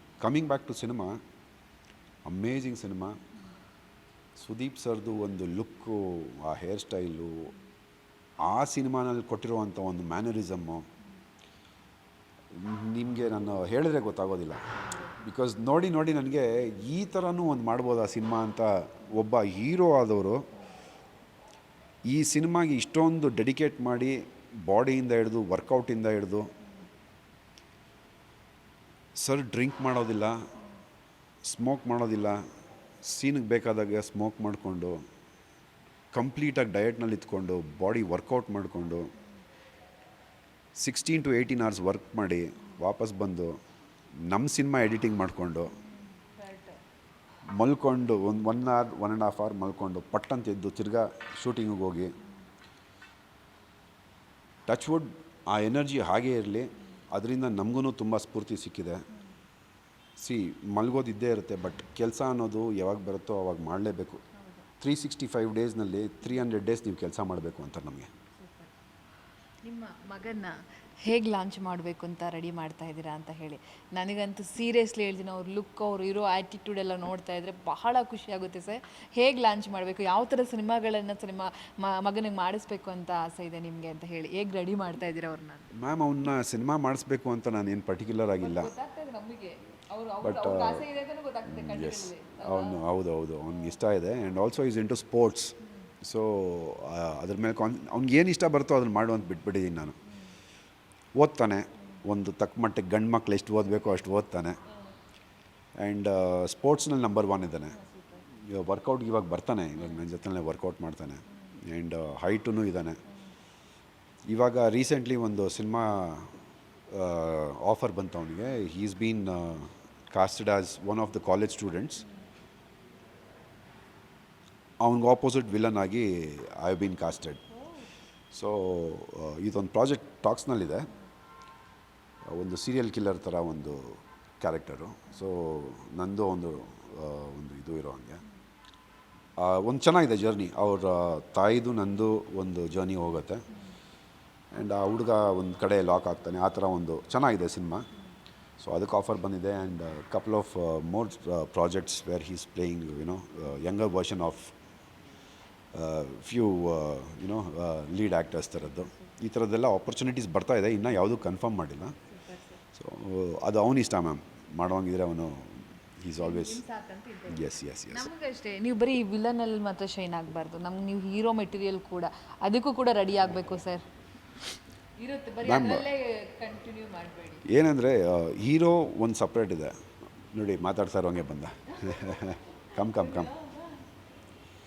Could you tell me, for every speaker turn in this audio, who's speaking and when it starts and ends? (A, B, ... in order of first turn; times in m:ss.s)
0:00.2-0:01.2 A
0:02.2-0:03.2 A
0:04.4-0:07.5 A
0:08.4-0:10.8 A
0:12.5-0:20.4 A
0:22.0-0:26.5 A
0:29.2-0:30.4 A
0:31.4-0:32.4 A
0:33.0-0:35.0 A
0:36.1-0:39.1 A
0:40.8-0:43.6 A
0:44.2-0:45.7 A
0:46.2-0:46.8 B
0:47.6-0:52.1 A
0:54.7-0:59.0 A
1:00.2-1:04.2 A
1:04.8-1:08.1 A
1:08.4-1:08.7 B
1:09.6-1:25.7 B
1:25.7-1:28.7 A
1:28.4-1:32.8 B
1:30.2-1:30.9 A
1:31.4-1:40.0 A
1:41.2-1:44.6 A
1:45.8-1:47.8 A
1:47.7-1:48.2 B
1:48.4-1:53.0 A
1:54.3-1:56.3 A
1:56.9-2:02.0 A
2:04.8-2:07.4 A
2:08.3-2:10.9 A
2:12.2-2:18.2 A
2:19.4-2:23.4 A
2:24.5-2:27.8 A
2:28.6-2:34.5 A
2:35.7-2:41.9 A
2:42.1-2:42.6 B
2:42.7-2:46.6 A
2:46.2-2:53.8 B
2:47.3-2:48.1 A
2:55.0-2:57.4 B
2:55.4-2:55.9 A
2:57.4-2:59.7 A
3:00.3-3:03.3 A
3:02.9-3:03.6 B